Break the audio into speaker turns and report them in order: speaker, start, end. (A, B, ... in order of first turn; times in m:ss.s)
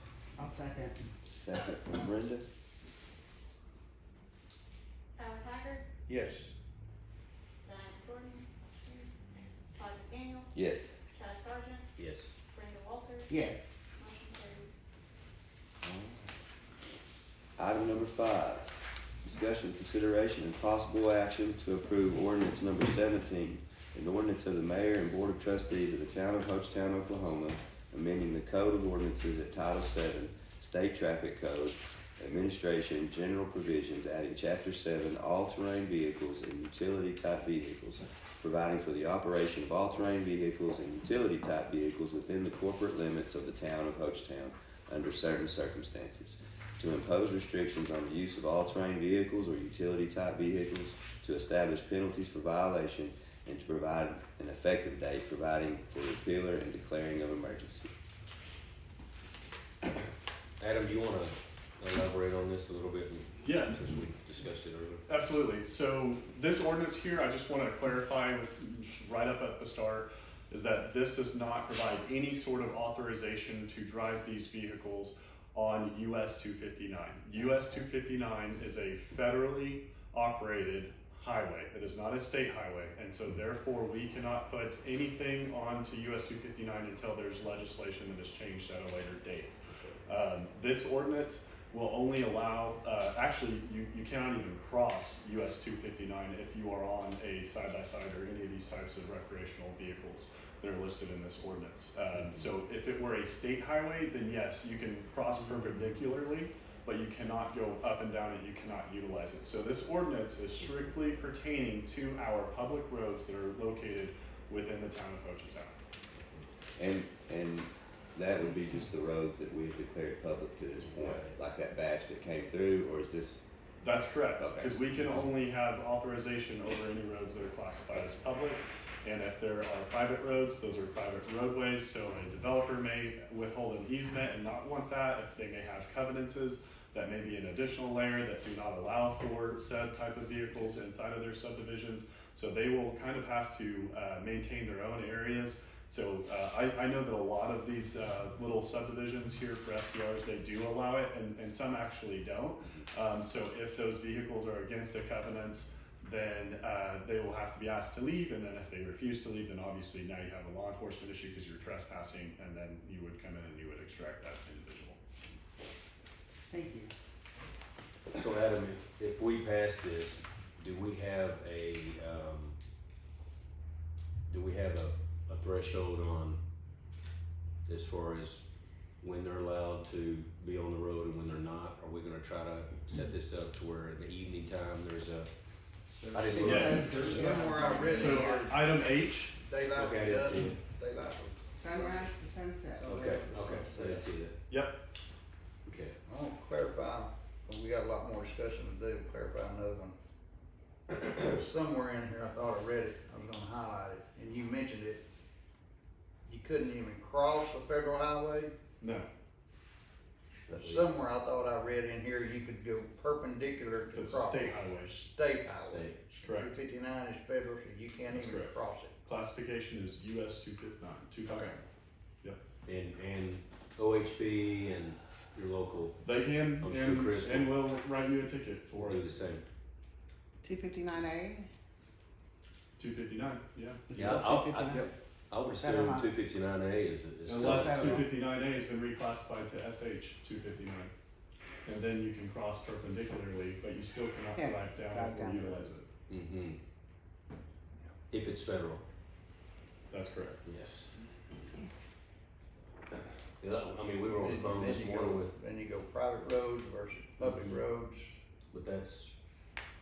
0:01.3-0:02.4 A
0:05.1-0:05.8 B
0:06.1-0:06.5 C
0:07.6-0:09.1 B
0:09.8-0:10.5 B
0:10.5-0:11.0 A
0:11.1-0:11.9 B
0:12.0-0:12.3 D
0:12.5-0:14.7 B
0:13.4-0:13.6 E
0:15.8-0:16.3 A
0:17.6-0:57.9 A
1:00.6-1:05.0 D
1:03.4-1:03.8 F
1:05.1-1:55.8 F
1:50.6-1:51.3 D
1:56.8-2:03.4 A
2:00.8-2:01.3 D
2:03.8-2:45.0 F
2:04.4-2:05.2 A
2:46.5-2:46.9 E
2:48.1-2:52.6 D
2:54.3-2:56.4 D
2:57.6-2:58.4 D
2:59.0-3:05.3 D
3:06.1-3:12.2 C
3:06.1-3:08.1 D
3:06.4-3:08.3 E
3:06.4-3:07.1 F
3:07.9-3:09.4 F
3:09.7-3:10.6 D
3:11.6-3:13.0 E
3:12.7-3:14.1 C
3:12.8-3:14.4 D
3:14.5-3:14.8 F
3:15.6-3:16.0 D
3:16.0-3:20.0 C
3:20.9-3:25.0 C
3:26.2-3:28.5 C
3:28.8-3:29.1 F
3:30.5-3:31.0 D
3:30.5-3:38.9 C
3:33.9-3:35.0 F
3:35.5-3:36.0 D
3:38.1-3:38.5 F
3:39.0-3:41.6 F
3:42.6-3:46.0 D
3:46.0-3:49.0 F
3:46.6-3:47.6 D
3:48.7-3:49.4 D
3:50.4-3:51.5 E
3:52.8-3:53.9 F
3:53.9-3:54.8 E
3:53.9-3:58.0 D
3:55.6-3:56.1 E
3:57.2-4:00.9 F
3:57.5-3:58.1 E
4:01.6-4:05.8 F
4:04.3-4:05.6 E
4:06.1-4:06.6 D
4:08.1-4:08.8 D
4:09.9-4:10.4 F
4:10.4-4:10.9 D
4:13.4-4:15.4 D
4:14.2-4:18.1 C
4:17.2-4:17.6 D
4:18.5-4:19.1 D